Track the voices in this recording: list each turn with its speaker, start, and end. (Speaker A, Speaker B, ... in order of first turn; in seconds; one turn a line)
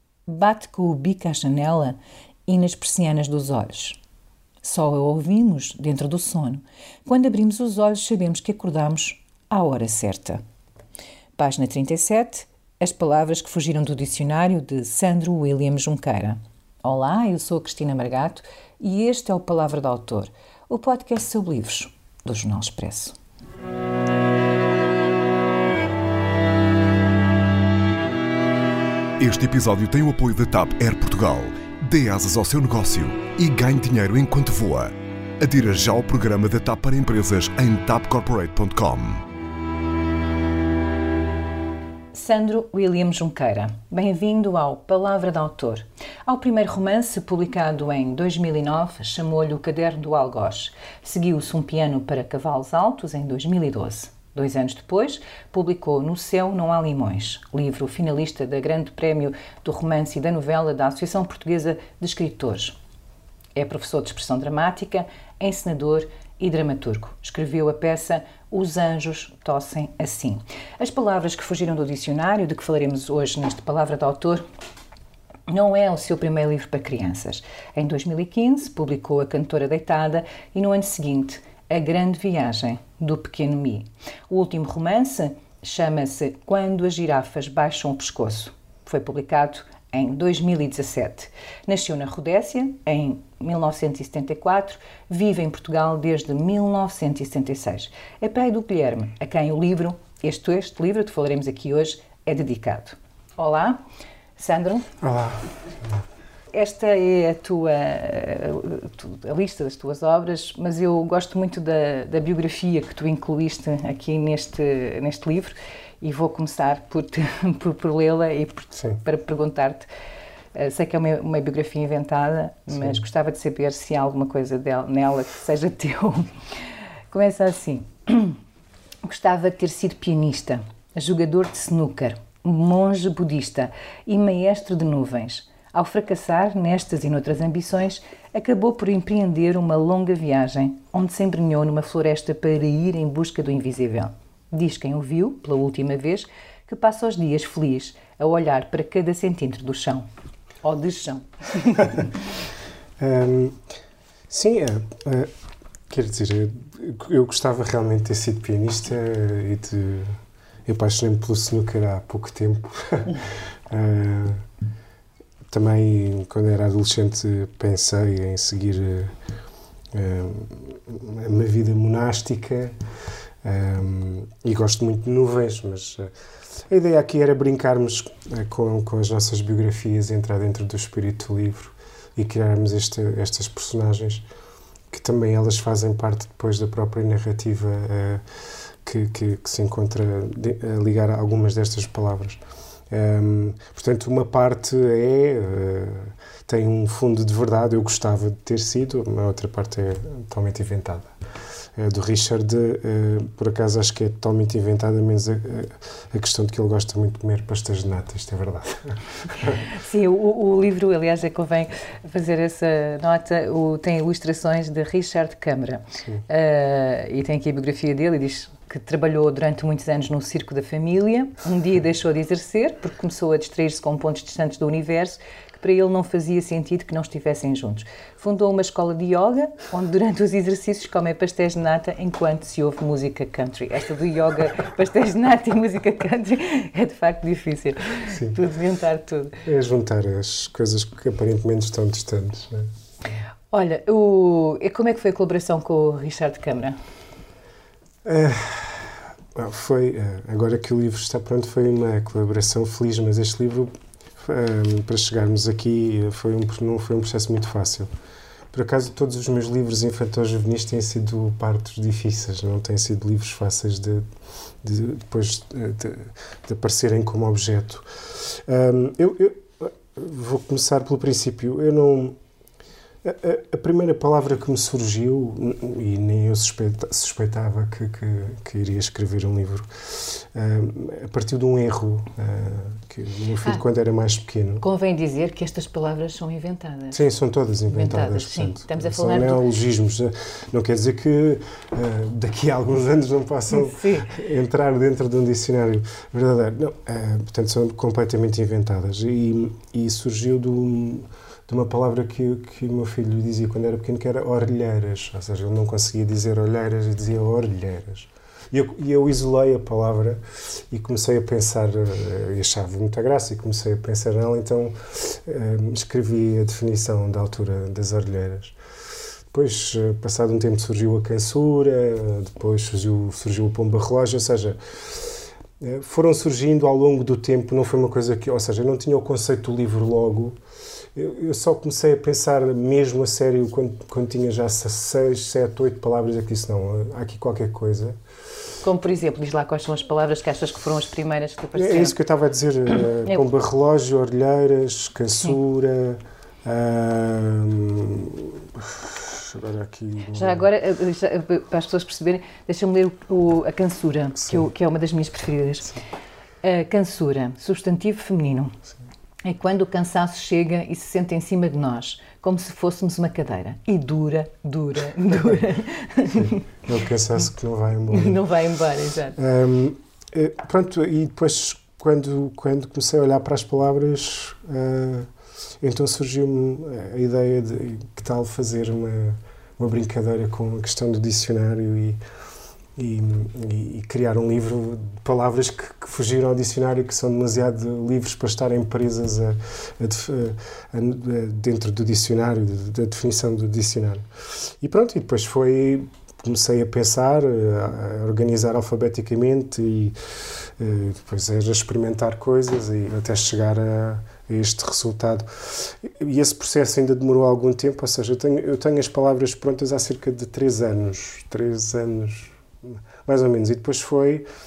Speaker A: 0.3-4.0
Speaker A: 4.6-10.4
Speaker A: 11.4-23.1
Speaker B: 29.2-39.2
Speaker A: 42.1-62.8
Speaker A: 63.5-74.4
Speaker A: 75.5-103.8
Speaker A: 104.4-104.9
Speaker C: 105.0-105.4
Speaker A: 106.5-119.8
Speaker A: 120.5-126.3
Speaker C: 122.7-123.0
Speaker A: 127.1-128.4
Speaker A: 129.0-150.1
Speaker A: 150.6-152.1
Speaker C: 153.0-153.6
Speaker C: 154.3-155.3
Speaker C: 155.9-164.4
Speaker C: 165.5-169.1
Speaker C: 169.9-172.7
Speaker C: 173.4-176.1
Speaker C: 176.7-184.2
Speaker C: 184.9-188.2
Speaker C: 188.8-201.1
Speaker C: 201.8-209.6
Speaker A: 209.7-239.4
Speaker C: 238.1-238.4
Speaker C: 239.4-242.7
Speaker A: 243.5-246.8
Speaker C: 248.0-257.9
Speaker C: 258.5-264.1
Speaker C: 264.6-272.2
Speaker C: 273.0-284.6
Speaker A: 284.6-287.0
Speaker C: 286.9-318.6
Speaker A: 287.7-289.4
Speaker A: 293.5-294.1
Speaker C: 319.3-330.4
Speaker C: 330.9-338.0
Speaker A: 338.6-341.9
Speaker C: 341.5-350.5
Speaker A: 350.1-355.7
Speaker A: 356.4-358.6
Speaker A: 359.2-366.4
Speaker C: 366.1-368.2
Speaker A: 367.9-369.2
Speaker C: 369.2-375.1
Speaker C: 375.6-382.0
Speaker C: 382.8-394.1
Speaker C: 394.6-399.9
Speaker C: 400.6-414.2